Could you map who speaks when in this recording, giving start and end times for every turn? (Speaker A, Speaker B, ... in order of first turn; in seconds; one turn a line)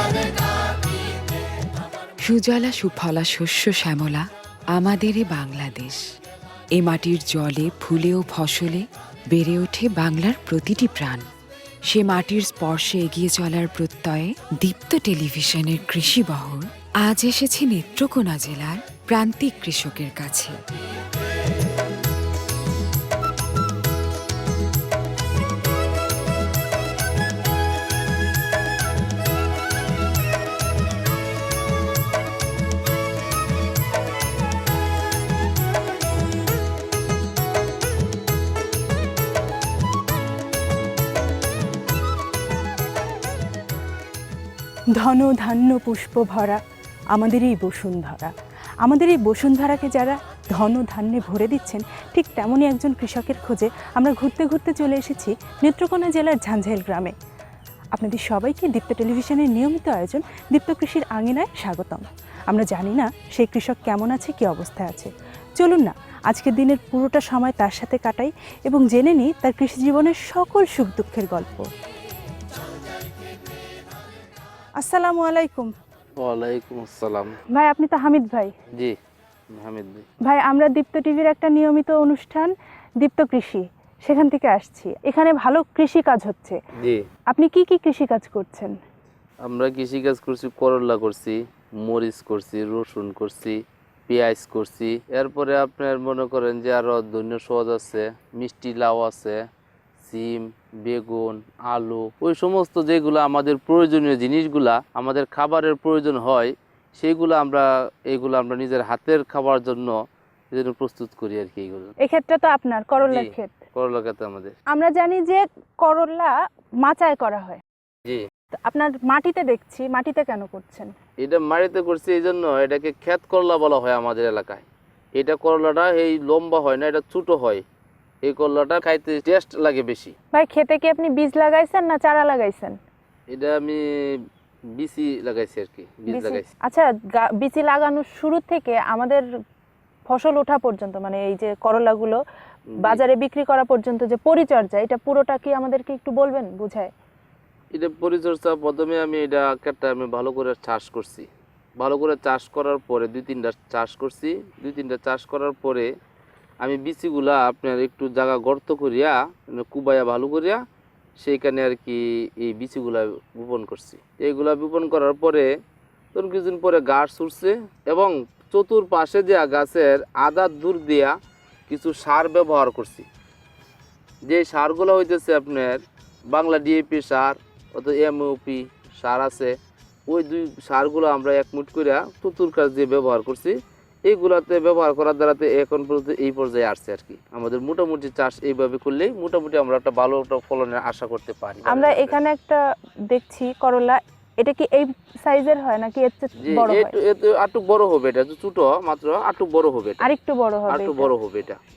Speaker A: 2.3-4.2
Speaker A: 4.8-6.0
Speaker A: 6.8-8.8
Speaker A: 9.3-11.2
Speaker A: 11.9-20.5
Speaker B: 45.0-46.6
Speaker B: 47.1-48.3
Speaker B: 48.8-57.1
Speaker B: 58.0-71.7
Speaker B: 74.8-75.7
Speaker C: 76.2-77.3
Speaker B: 77.5-78.5
Speaker C: 79.5-80.1
Speaker B: 80.3-86.6
Speaker B: 87.3-88.8
Speaker C: 89.4-93.6
Speaker C: 94.1-99.4
Speaker C: 100.0-110.0
Speaker C: 110.5-111.9
Speaker B: 112.0-113.6
Speaker C: 113.0-114.5
Speaker B: 114.7-116.3
Speaker B: 116.8-117.6
Speaker B: 118.6-120.9
Speaker C: 121.2-124.6
Speaker C: 125.2-127.6
Speaker C: 128.3-130.2
Speaker B: 130.3-132.8
Speaker C: 133.3-133.8
Speaker C: 134.8-136.5
Speaker B: 136.1-139.2
Speaker B: 140.1-142.2
Speaker B: 142.8-146.9
Speaker C: 147.7-151.3
Speaker C: 151.8-155.9
Speaker C: 156.6-160.6
Speaker C: 161.2-165.5
Speaker C: 166.2-171.1
Speaker C: 171.7-173.1
Speaker C: 174.3-175.8
Speaker C: 176.3-179.5
Speaker C: 180.1-183.5
Speaker C: 184.1-192.2
Speaker B: 191.7-192.6
Speaker B: 193.1-196.9
Speaker C: 196.4-200.1
Speaker B: 200.0-201.1
Speaker C: 200.7-201.6